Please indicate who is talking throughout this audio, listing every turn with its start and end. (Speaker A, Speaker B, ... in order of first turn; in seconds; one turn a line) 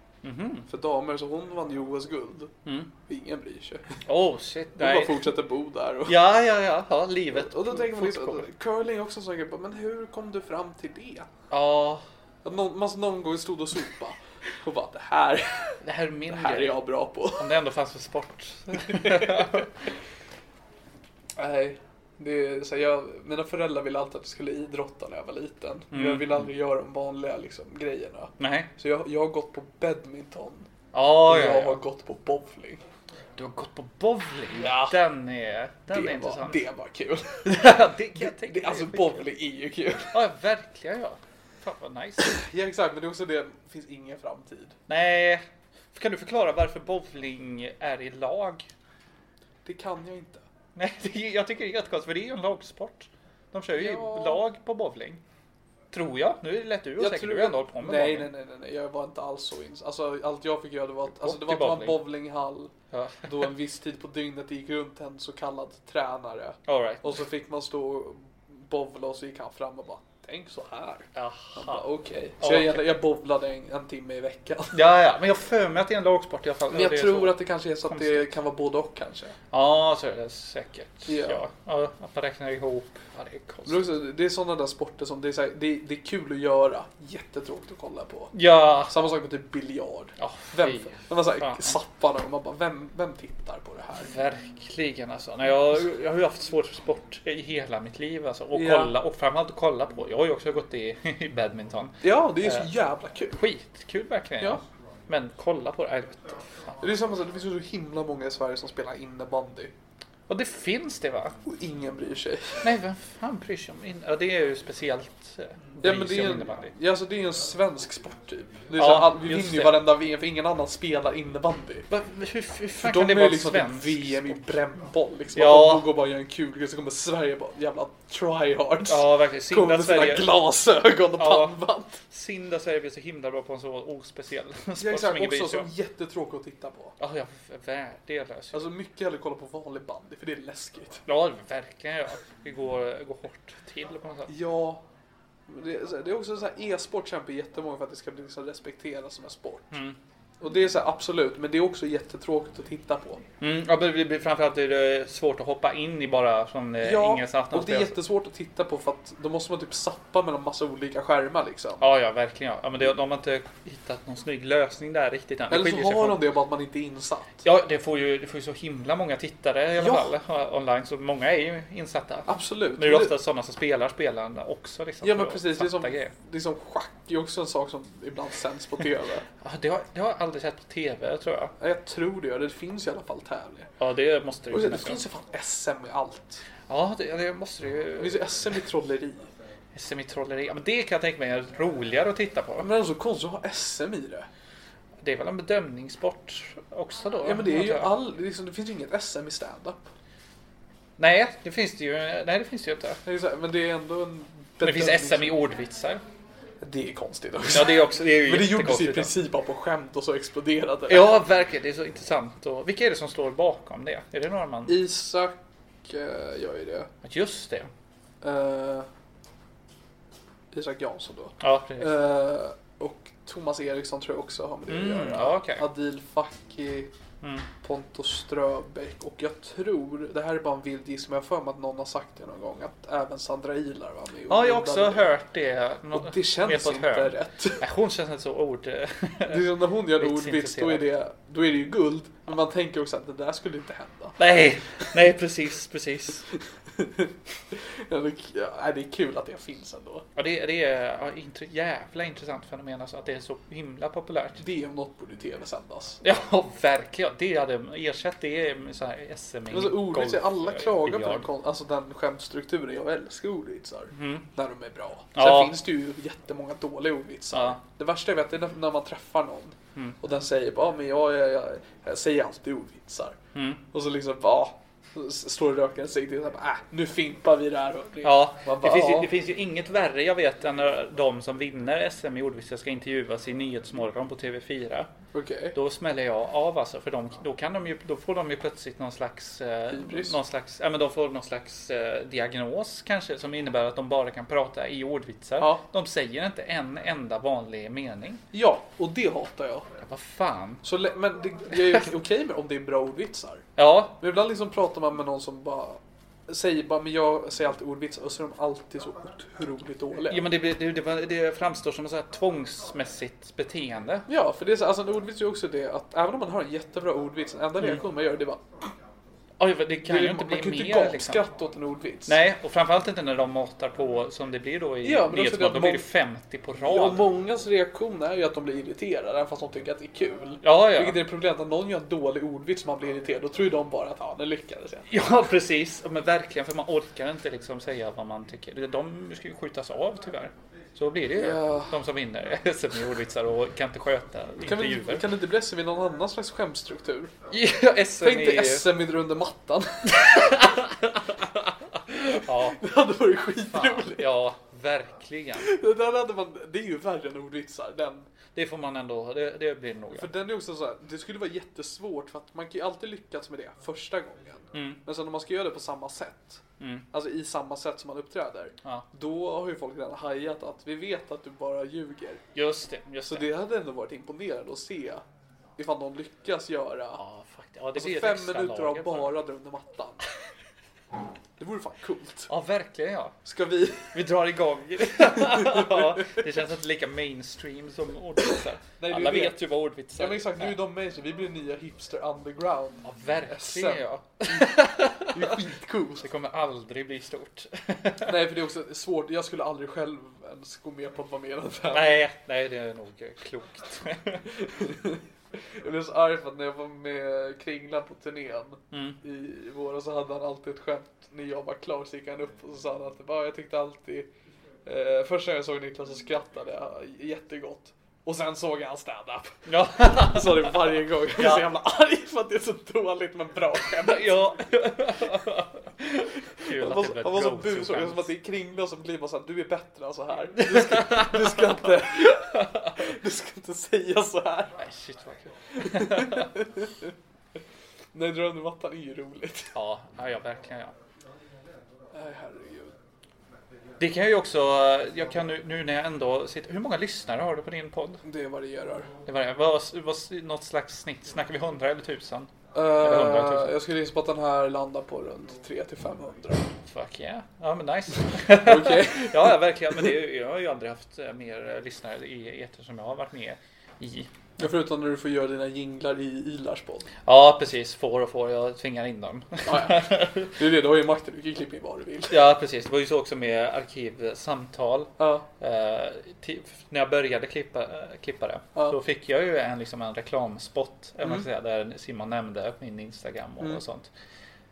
Speaker A: 0.2-0.7
Speaker B: 0.7-4.0
Speaker A: 4.0-5.3
Speaker B: 4.8-6.2
Speaker A: 6.0-8.5
Speaker B: 7.3-11.3
Speaker A: 11.5-12.0
Speaker B: 12.4-17.5
Speaker A: 15.8-19.7
Speaker B: 18.8-19.7
Speaker B: 21.4-30.7
Speaker A: 25.9-26.5
Speaker A: 28.4-28.7
Speaker A: 30.9-31.8
Speaker B: 31.3-32.8
Speaker A: 33.4-36.6
Speaker B: 34.6-35.0
Speaker B: 35.9-40.1
Speaker A: 37.4-39.2
Speaker A: 40.1-42.4
Speaker B: 42.2-44.8
Speaker A: 44.9-48.7
Speaker B: 49.6-50.4
Speaker A: 50.8-55.2
Speaker B: 53.7-54.4
Speaker A: 55.9-58.3
Speaker B: 57.0-62.7
Speaker A: 61.1-62.0
Speaker A: 62.9-63.5
Speaker B: 63.2-74.8
Speaker A: 66.7-67.2
Speaker A: 71.1-71.9
Speaker A: 72.4-72.9
Speaker A: 74.7-78.3
Speaker B: 76.7-79.3
Speaker A: 79.5-83.8
Speaker B: 81.1-81.4
Speaker B: 83.7-88.3
Speaker A: 88.3-88.9
Speaker B: 88.9-94.1
Speaker A: 90.2-91.8
Speaker A: 94.0-102.7
Speaker B: 98.5-98.9
Speaker B: 102.0-103.4
Speaker A: 103.3-106.8
Speaker B: 106.8-109.7
Speaker A: 110.3-111.3
Speaker B: 111.4-112.7
Speaker A: 112.6-116.7
Speaker B: 115.8-121.9
Speaker A: 118.8-119.8
Speaker A: 121.9-124.4
Speaker B: 122.8-132.0
Speaker A: 125.3-125.9
Speaker A: 128.8-130.4
Speaker A: 131.2-135.7
Speaker B: 134.8-136.9
Speaker A: 137.0-138.7
Speaker B: 138.5-141.0
Speaker A: 141.1-144.3
Speaker B: 144.3-144.8
Speaker B: 145.5-149.8
Speaker A: 149.7-150.0
Speaker B: 150.4-153.2
Speaker A: 153.4-158.0
Speaker B: 156.8-161.8
Speaker A: 161.8-166.2
Speaker B: 165.5-167.4
Speaker A: 167.4-176.1
Speaker B: 169.8-170.1
Speaker B: 172.3-173.1
Speaker B: 175.0-179.2
Speaker A: 179.4-181.5
Speaker B: 181.6-183.7
Speaker A: 183.8-185.0
Speaker B: 184.5-186.4
Speaker A: 186.7-188.6
Speaker B: 188.0-189.3
Speaker A: 189.7-192.7
Speaker B: 192.6-194.3
Speaker A: 195.0-197.9
Speaker B: 197.2-199.8
Speaker A: 201.0-203.0
Speaker B: 203.0-205.4
Speaker A: 204.6-206.0
Speaker B: 206.6-211.2
Speaker A: 207.5-209.1
Speaker A: 210.9-214.8
Speaker B: 214.7-216.9
Speaker A: 217.0-217.7
Speaker B: 218.2-218.9
Speaker B: 220.5-226.9
Speaker A: 221.4-221.9
Speaker A: 224.7-225.7
Speaker B: 227.6-235.1
Speaker A: 234.3-240.8
Speaker B: 235.9-237.6
Speaker B: 239.3-244.2
Speaker A: 244.2-246.2
Speaker B: 246.7-250.0
Speaker A: 250.2-254.4
Speaker B: 254.4-256.0
Speaker A: 256.0-261.3
Speaker B: 259.5-273.2
Speaker A: 263.9-264.3
Speaker A: 265.1-265.6
Speaker A: 267.3-267.6
Speaker A: 273.3-273.6
Speaker B: 273.7-279.1
Speaker A: 278.0-284.9
Speaker B: 285.1-285.6
Speaker A: 285.5-298.2
Speaker B: 289.7-290.1
Speaker B: 295.4-295.6
Speaker B: 298.3-299.7
Speaker A: 299.8-300.6
Speaker B: 300.6-303.4
Speaker A: 303.6-304.0
Speaker B: 304.0-310.2
Speaker A: 310.1-314.1
Speaker B: 314.1-318.7
Speaker A: 319.4-321.2
Speaker B: 319.8-322.2
Speaker A: 322.1-327.1
Speaker B: 324.8-325.8
Speaker B: 326.6-334.9
Speaker A: 330.4-331.0
Speaker A: 334.9-345.1
Speaker B: 341.1-341.8
Speaker B: 344.4-347.1
Speaker A: 347.3-348.7
Speaker B: 348.0-350.4
Speaker A: 349.9-352.6
Speaker B: 351.9-354.1
Speaker A: 353.5-355.5
Speaker B: 355.4-358.1
Speaker A: 358.3-360.1
Speaker B: 359.9-372.2
Speaker A: 364.5-364.8
Speaker A: 366.6-366.9
Speaker A: 372.3-373.3
Speaker B: 373.1-375.0
Speaker B: 375.6-377.0
Speaker A: 376.9-379.2
Speaker B: 377.7-380.1
Speaker B: 381.4-382.3
Speaker A: 382.3-383.2
Speaker B: 383.2-384.0
Speaker A: 383.9-390.6
Speaker B: 385.0-386.2
Speaker B: 388.8-389.4
Speaker B: 389.9-396.1
Speaker A: 392.8-395.4
Speaker A: 396.0-398.1
Speaker B: 398.0-401.9
Speaker A: 401.7-404.3
Speaker B: 404.3-414.1
Speaker A: 408.7-409.0
Speaker B: 414.6-424.4
Speaker A: 419.5-421.5
Speaker A: 423.8-428.1
Speaker B: 426.4-434.6
Speaker A: 430.4-432.8
Speaker A: 434.6-436.3
Speaker B: 435.5-436.9
Speaker B: 437.9-439.5
Speaker A: 439.5-440.7
Speaker B: 441.9-442.7
Speaker A: 443.8-448.0
Speaker B: 448.0-448.9
Speaker A: 449.1-453.5
Speaker B: 452.5-456.5
Speaker A: 456.7-464.1
Speaker B: 458.4-459.8
Speaker B: 464.4-466.9
Speaker A: 467.0-470.3
Speaker B: 469.4-472.1
Speaker A: 472.1-483.9
Speaker B: 475.0-475.2